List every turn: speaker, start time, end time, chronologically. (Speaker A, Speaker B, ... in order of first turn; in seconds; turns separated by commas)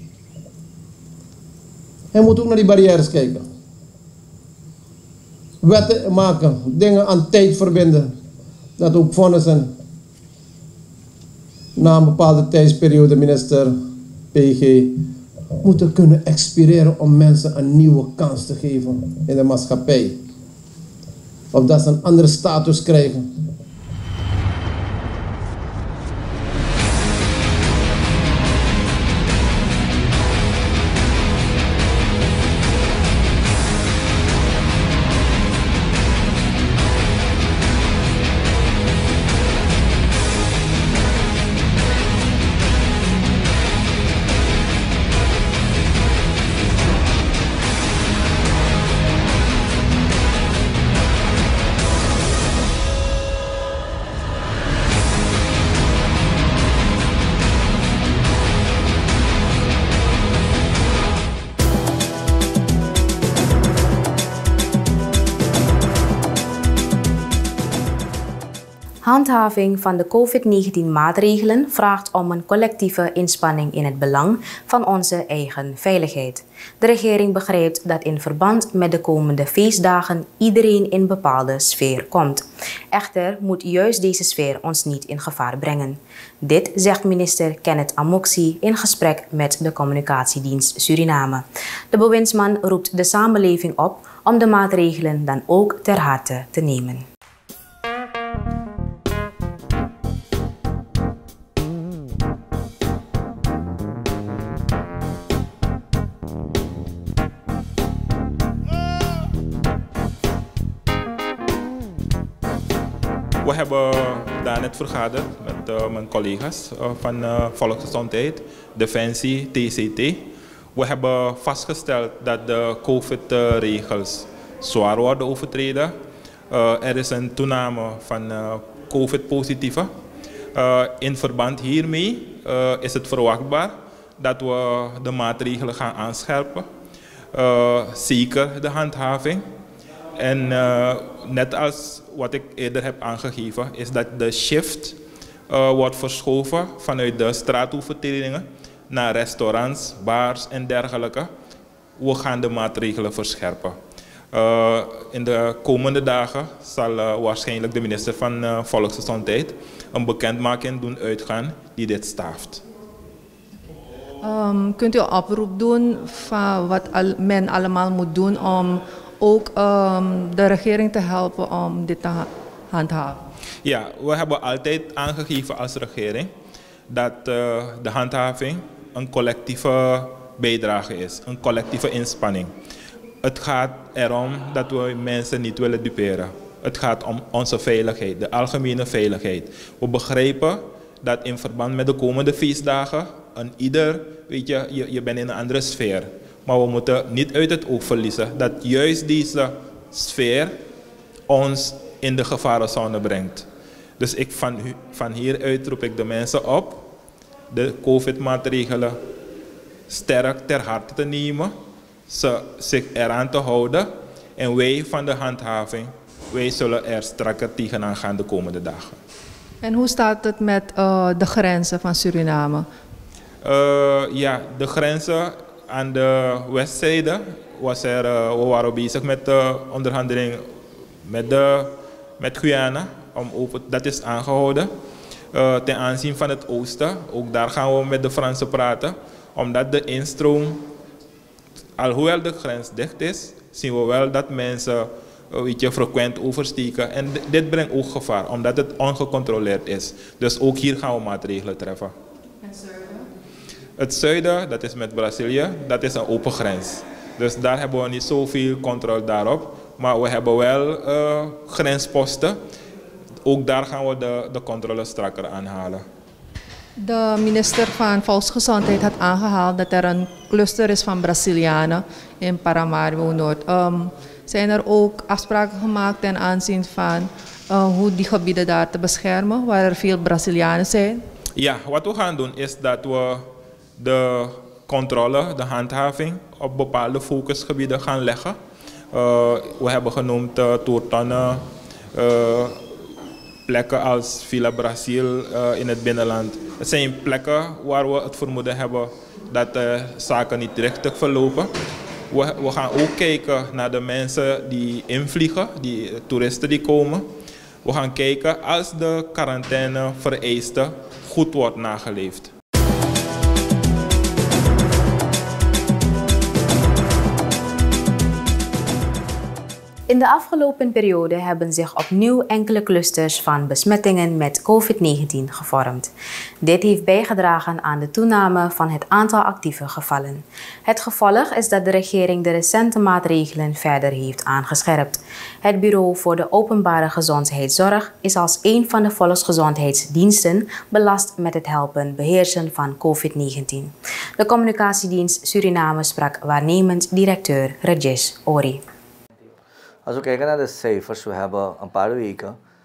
Speaker A: 2.1-3.5, Speaker A: 5.6-8.1, Speaker A: 8.8-9.7, Speaker A: 11.8-13.7, Speaker A: 14.3-15.0, Speaker A: 15.6-20.2, Speaker A: 21.5-23.3, Speaker B: 69.0-97.0, Speaker C: 113.4-125.9, Speaker C: 126.5-129.9, Speaker C: 130.5-136.7, Speaker C: 137.3-139.4, Speaker C: 140.2-145.0, Speaker C: 145.5-151.3, Speaker C: 152.0-153.8, Speaker C: 154.3-162.6, Speaker D: 164.2-173.2, Speaker C: 173.6-176.3, Speaker C: 176.9-182.5, Speaker C: 183.2-200.6, Speaker C: 201.3-203.5, Speaker C: 204.0-206.9, Speaker C: 207.5-209.0, Speaker C: 209.9-211.5, Speaker C: 212.1-219.0, Speaker D: 219.6-222.7, Speaker C: 223.4-230.5, Speaker C: 231.0-234.7, Speaker C: 235.3-240.6, Speaker C: 241.8-251.9, Speaker D: 252.4-253.1, Speaker C: 253.8-262.4, Speaker C: 263.2-265.8, Speaker D: 266.8-281.0, Speaker C: 281.4-288.4, Speaker C: 288.9-292.7, Speaker C: 293.5-301.5, Speaker C: 302.1-307.1, Speaker C: 307.6-312.3, Speaker B: 319.9-325.9, Speaker B: 326.4-348.6, Speaker E: 349.9-352.4